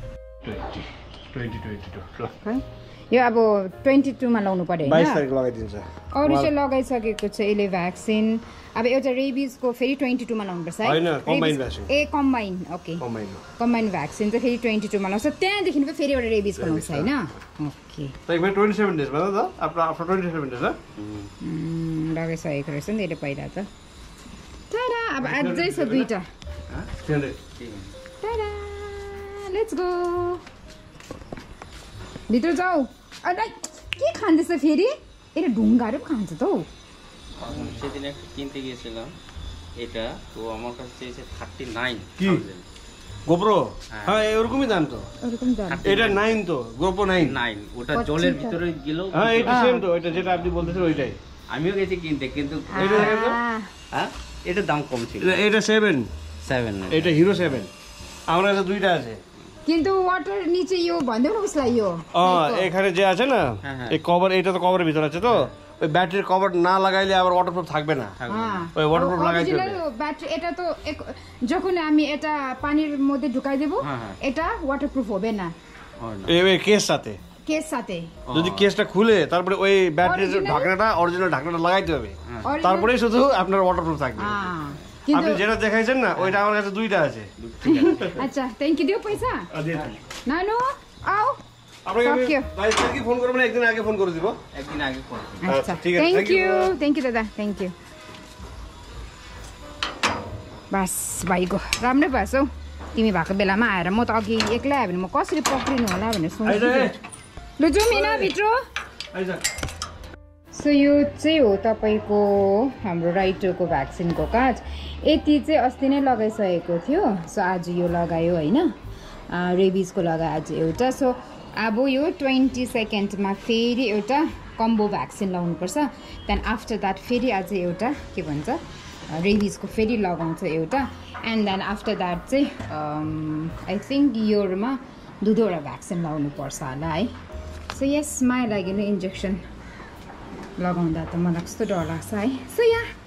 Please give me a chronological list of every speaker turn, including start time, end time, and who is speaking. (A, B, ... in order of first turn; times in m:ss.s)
0:00.4-0:02.3 A
0:02.4-0:05.2 B
0:04.8-0:06.5 A
0:06.1-0:13.0 B
0:10.8-0:11.9 A
0:13.0-0:13.4 A
0:13.6-0:18.2 B
0:16.6-0:17.1 A
0:18.3-0:20.8 A
0:21.0-0:21.3 C
0:21.4-0:23.7 B
0:24.7-0:26.2 B
0:25.2-0:26.1 A
0:27.0-0:27.4 A
0:27.6-0:27.9 C
0:28.2-0:30.4 B
0:32.3-0:36.7 B
0:37.4-0:39.1 C
0:39.8-0:42.6 C
0:42.2-0:42.4 A
0:43.3-0:45.1 A
0:43.9-0:44.3 C
0:45.2-0:45.8 B
0:45.7-0:46.3 C
0:45.8-0:47.4 A
0:47.2-0:49.7 C
0:47.9-0:48.6 B
0:49.1-0:51.2 A
0:49.5-0:49.8 B
0:50.2-0:53.3 C
0:52.7-0:53.7 B
0:52.8-0:53.4 A
0:53.9-0:55.4 C
0:55.2-0:56.1 A
0:56.4-0:57.6 C
0:56.9-0:57.7 A
0:58.3-0:59.2 A
0:59.6-1:02.7 B
1:02.1-1:08.2 A
1:03.6-1:04.0 C
1:08.2-1:08.7 C
1:08.3-1:15.5 B
1:08.7-1:09.8 A
1:13.8-1:14.2 C
1:16.0-1:16.3 C
1:16.2-1:17.2 A
1:17.4-1:18.1 B
1:18.3-1:18.7 C
1:18.3-1:24.5 A
1:20.0-1:20.7 B
1:22.4-1:22.9 B
1:24.2-1:25.4 B
1:25.1-1:27.3 A
1:26.1-1:26.4 C
1:27.4-1:28.2 C
1:27.6-1:29.5 B
1:29.5-1:29.9 A
1:30.2-1:31.4 B
1:31.8-1:34.4 A
1:32.0-1:32.5 B
1:34.5-1:35.5 C
1:35.4-1:37.7 B
1:35.4-1:36.8 A
1:40.7-1:47.0 B
1:46.4-1:47.0 A
1:47.6-1:48.6 B
1:47.9-1:48.3 A
1:49.1-1:49.4 A
1:50.5-1:58.7 B
1:59.3-2:17.1 B
2:17.7-2:19.4 B
2:20.6-2:22.9 B